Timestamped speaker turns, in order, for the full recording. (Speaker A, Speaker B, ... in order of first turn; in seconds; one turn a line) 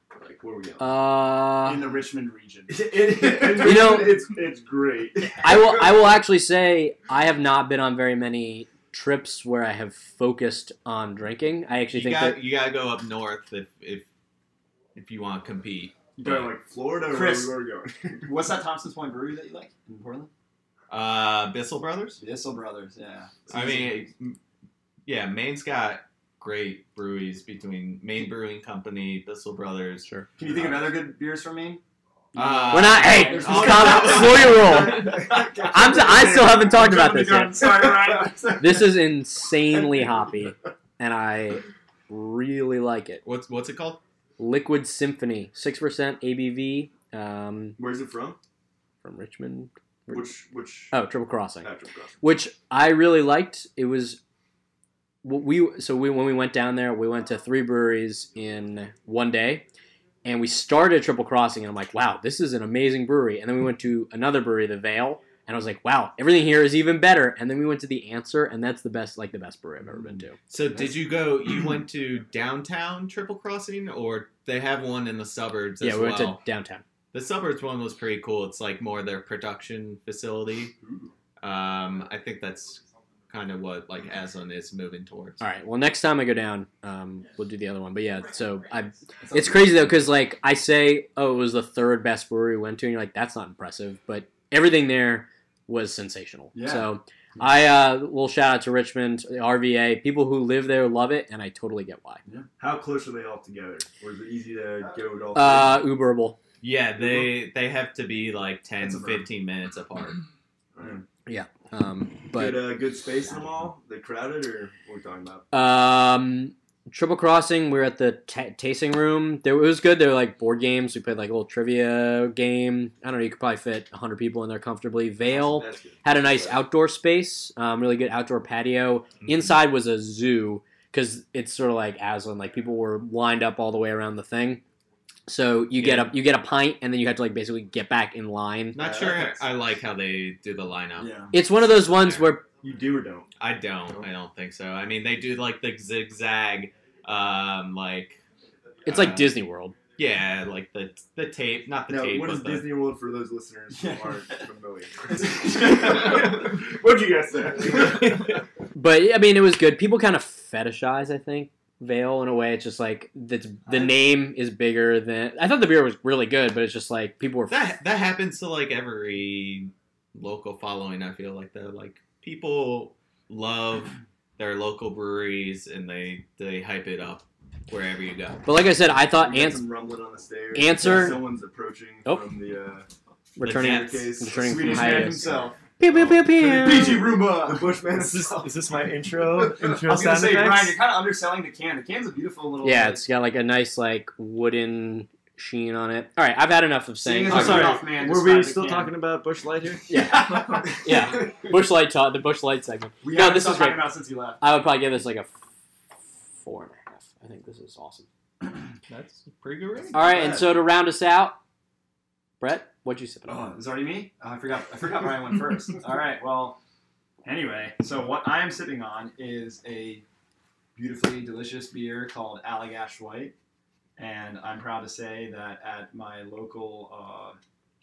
Speaker A: 0.1-1.0
Speaker B: 0.8-1.9
Speaker C: 1.6-4.1
Speaker A: 2.7-5.8
Speaker B: 3.6-4.2
Speaker B: 5.4-12.4
Speaker D: 11.9-14.1
Speaker D: 14.9-16.6
Speaker A: 16.2-18.3
Speaker C: 17.1-17.6
Speaker C: 18.2-20.3
Speaker D: 20.9-22.2
Speaker C: 22.2-24.0
Speaker D: 23.5-24.4
Speaker D: 25.1-30.1
Speaker C: 30.4-31.8
Speaker C: 32.3-38.9
Speaker D: 32.4-35.2
Speaker B: 32.7-37.8
Speaker A: 33.6-36.2
Speaker B: 38.6-43.2
Speaker D: 43.2-44.0
Speaker B: 44.4-47.8
Speaker A: 47.8-48.4
Speaker B: 49.0-50.3
Speaker A: 50.1-51.0
Speaker B: 50.9-51.7
Speaker A: 51.6-52.2
Speaker B: 52.2-54.2
Speaker B: 55.2-59.6
Speaker B: 60.2-70.4
Speaker D: 70.5-76.4
Speaker B: 75.8-76.8
Speaker D: 77.1-80.8
Speaker A: 80.8-81.1
Speaker D: 81.4-85.4
Speaker B: 85.4-102.2
Speaker C: 89.2-89.8
Speaker C: 96.5-97.5
Speaker A: 102.6-105.9
Speaker B: 105.3-106.4
Speaker D: 106.6-110.2
Speaker C: 108.8-109.3
Speaker A: 110.8-111.0
Speaker B: 111.3-112.7
Speaker A: 112.3-115.5
Speaker B: 115.5-134.6
Speaker A: 125.3-126.6
Speaker B: 135.3-138.8
Speaker D: 135.8-136.1
Speaker D: 138.7-141.1
Speaker A: 138.8-139.4
Speaker C: 141.0-141.4
Speaker B: 141.3-142.5
Speaker D: 141.7-142.2
Speaker A: 142.6-143.3
Speaker D: 143.4-148.2
Speaker B: 148.9-149.8
Speaker D: 148.9-149.4
Speaker D: 150.0-152.7
Speaker A: 151.9-158.3
Speaker C: 153.7-154.3
Speaker C: 155.2-156.4
Speaker B: 158.7-167.7
Speaker D: 167.5-178.5
Speaker B: 178.4-179.6
Speaker A: 179.1-182.9
Speaker B: 180.5-181.2
Speaker B: 182.1-182.3
Speaker B: 183.4-187.1
Speaker D: 183.4-184.1
Speaker A: 183.5-185.1
Speaker C: 184.4-185.6
Speaker A: 186.4-188.4
Speaker C: 186.4-188.4
Speaker E: 187.9-190.8
Speaker C: 189.8-193.0
Speaker B: 192.6-197.8
Speaker C: 197.0-198.9
Speaker E: 197.3-199.9
Speaker B: 199.9-203.9
Speaker C: 199.9-200.8
Speaker C: 203.0-204.4
Speaker B: 204.4-205.4
Speaker B: 206.4-208.1
Speaker D: 208.9-209.9
Speaker A: 209.9-210.4
Speaker B: 209.9-211.4
Speaker B: 212.4-213.5
Speaker C: 213.2-216.6
Speaker C: 217.2-220.0
Speaker C: 220.8-223.3
Speaker C: 224.0-227.4